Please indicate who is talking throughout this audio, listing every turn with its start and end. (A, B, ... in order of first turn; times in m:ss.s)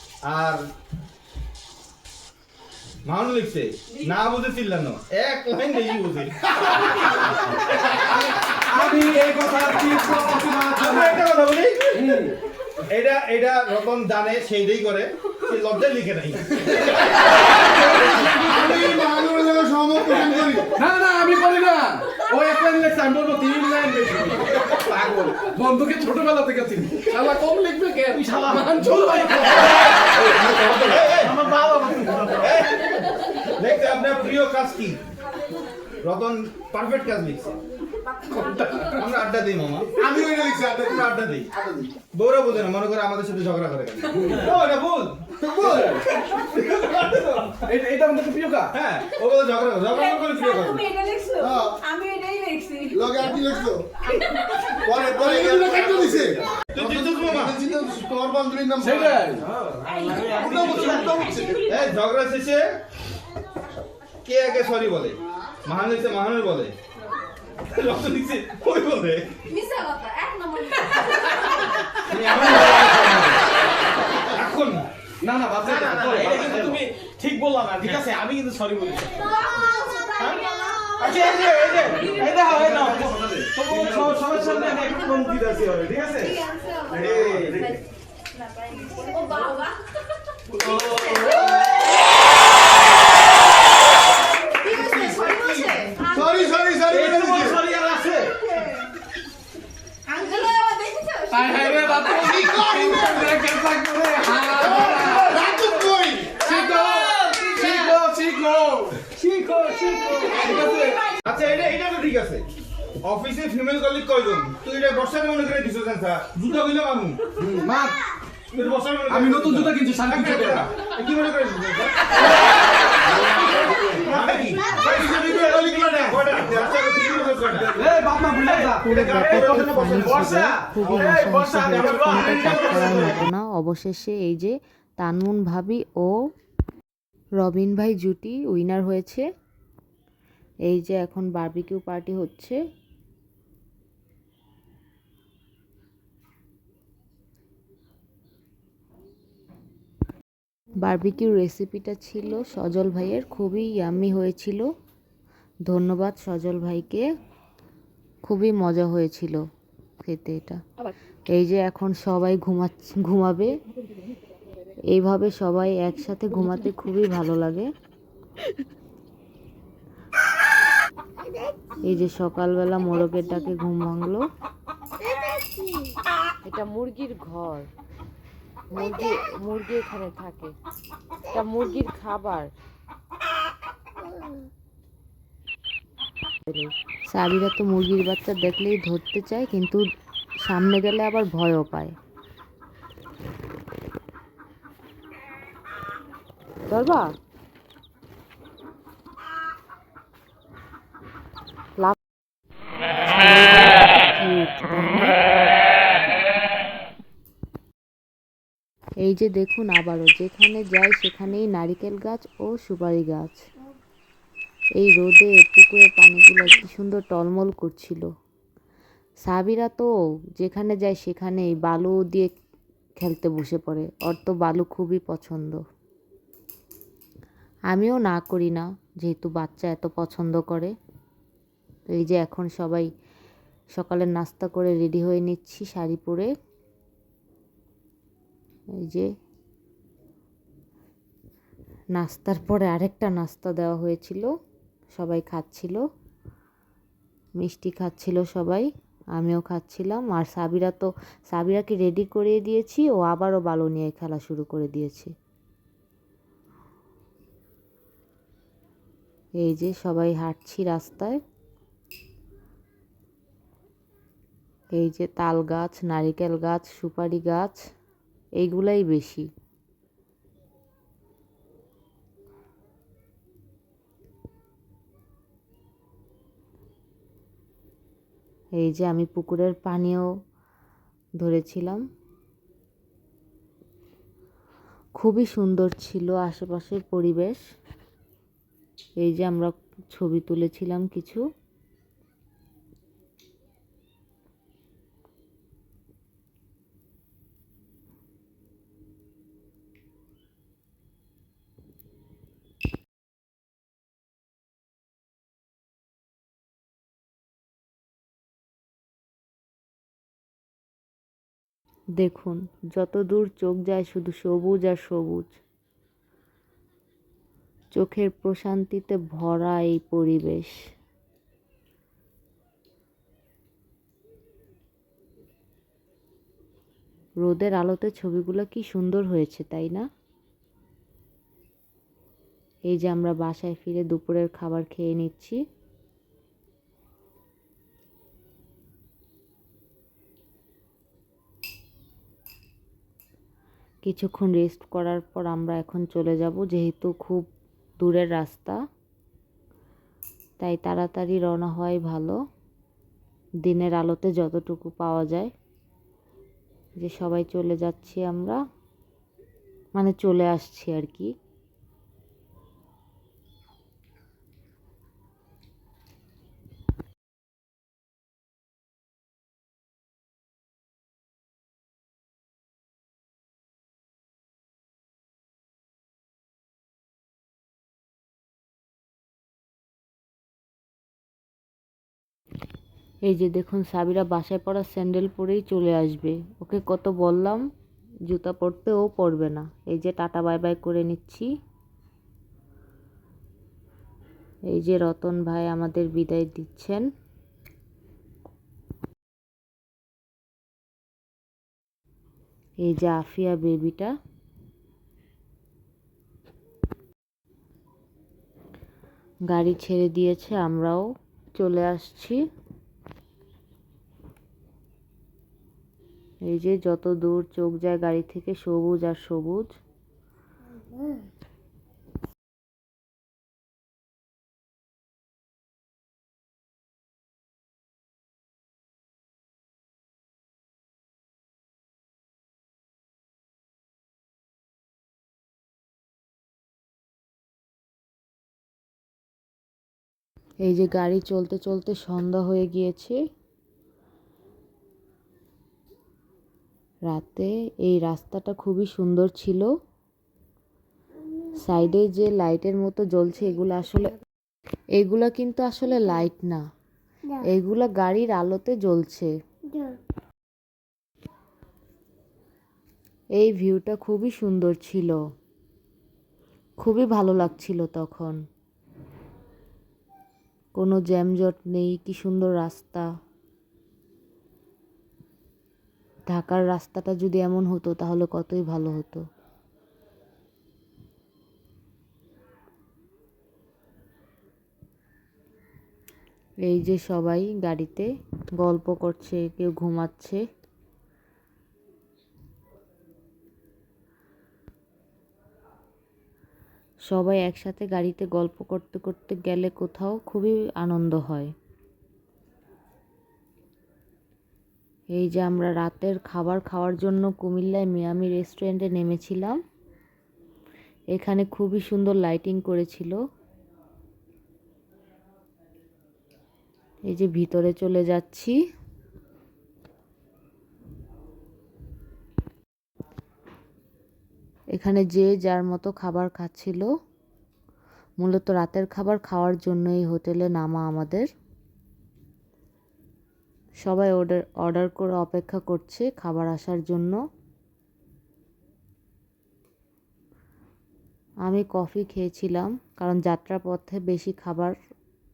0:00.2-0:00.7 A
0:03.0-0:06.8 A
0:08.7-0:11.0 B
0:10.8-0:12.2 A
0:12.0-0:12.3 B
0:12.9-0:17.2 A
0:17.9-0:18.6 B
0:18.2-0:20.8 C
0:20.8-0:29.7 B
0:28.0-0:29.9 D
0:30.6-0:31.5 A
0:30.9-0:32.6 D
0:32.2-0:32.9 A
0:33.4-0:35.0 A
0:36.0-0:37.6 A
0:38.4-0:38.9 B
0:38.9-0:40.0 A
0:40.0-0:41.9 C
0:40.8-0:47.6 A
0:45.4-0:46.2 C
0:45.7-0:46.0 B
0:47.6-0:48.7 B
0:48.7-0:50.9 A
0:50.9-0:53.0 E
0:51.4-0:51.8 C
0:52.9-0:59.4 C
0:55.8-0:57.6 A
0:58.8-0:59.4 B
0:59.4-1:01.3 D
1:00.2-1:01.7 C
1:01.6-1:02.8 A
1:04.2-1:06.8 A
1:07.7-1:09.3 A
1:09.5-1:11.5 E
1:12.0-1:13.5 A
1:14.3-1:14.9 A
1:15.2-1:19.4 D
1:15.6-1:16.7 B
1:15.6-1:16.8 A
1:19.4-1:21.0 E
1:21.0-1:27.7 D
1:22.1-1:24.8 B
1:26.6-1:27.1 E
1:26.9-1:27.7 A
1:28.6-1:29.7 E
1:30.6-1:31.6 D
1:30.7-1:31.1 A
1:30.9-1:31.6 E
1:34.6-1:35.8 D
1:34.6-1:36.2 E
1:35.0-1:35.4 A
1:36.0-1:37.6 C
1:36.9-1:38.4 D
1:40.1-1:42.1 E
1:41.3-1:45.4 B
1:42.3-1:43.4 C
1:44.5-1:46.6 C
1:45.0-1:45.2 D
1:46.5-1:51.1 B
1:47.0-1:47.4 D
1:51.2-1:52.5 A
1:53.0-1:57.3 A
1:57.4-1:58.0 B
1:58.5-2:02.0 A
1:59.1-2:00.7 B
2:03.3-2:06.7 D
2:04.0-2:07.8 A
2:04.8-2:06.2 C
2:07.8-2:08.7 B
2:08.0-2:13.2 D
2:08.6-2:10.9 A
2:08.8-2:16.2 F
2:17.4-2:19.3 F
2:20.7-2:22.6 F
2:30.8-2:34.7 F
2:35.7-2:37.0 F
2:38.2-2:39.4 F
2:40.0-2:40.6 F
2:41.3-2:43.5 F
2:44.9-2:47.7 F
2:51.8-2:54.3 F
2:56.4-2:57.7 F
2:58.7-3:00.5 F
3:01.3-3:02.5 F
3:06.5-3:09.8 F
3:10.4-3:12.0 F
3:16.7-3:17.1 F
3:23.1-3:25.1 F
3:29.0-3:33.4 F
3:34.8-3:38.1 F
3:39.2-3:42.3 F
3:43.0-3:45.6 F
3:47.7-3:50.8 F
3:51.9-3:52.9 F
3:53.8-3:56.3 F
3:58.8-3:59.1 F
4:02.0-4:04.3 F
4:04.9-4:05.8 F
4:07.4-4:15.1 F
4:19.4-4:21.2 F
4:24.8-4:27.6 F
4:28.4-4:29.3 F
4:38.6-4:40.1 F
4:41.2-4:41.8 F
4:45.0-4:47.4 F
4:49.0-4:51.2 F
5:12.0-5:15.3 F
5:17.7-5:20.6 F
5:27.2-5:29.9 F
5:32.7-5:35.4 F
5:43.8-5:47.3 F
5:47.8-5:48.6 F
5:50.4-5:52.2 F
5:53.4-5:55.3 F
5:56.8-5:58.4 F
5:59.8-6:01.1 F
6:23.1-6:27.4 F
6:28.1-6:31.3 F
6:34.5-6:36.8 F
6:42.6-6:43.9 F
6:49.3-6:52.2 F
6:56.3-6:59.5 F
7:20.4-7:23.0 F
7:26.9-7:29.5 F
7:31.4-7:33.9 F
7:34.8-7:36.4 F
7:37.2-7:39.1 F
7:43.2-7:45.0 F
7:46.6-7:48.2 F
7:50.6-7:52.9 F
7:56.1-7:59.0 F
8:06.4-8:07.9 F
8:08.4-8:10.2 F
8:16.9-8:21.3 F
8:24.9-8:29.4 F
8:30.9-8:33.0 F
8:36.9-8:38.4 F
8:44.5-8:46.7 F
8:48.0-8:51.1 F
8:53.6-8:57.0 F
9:01.3-9:04.6 F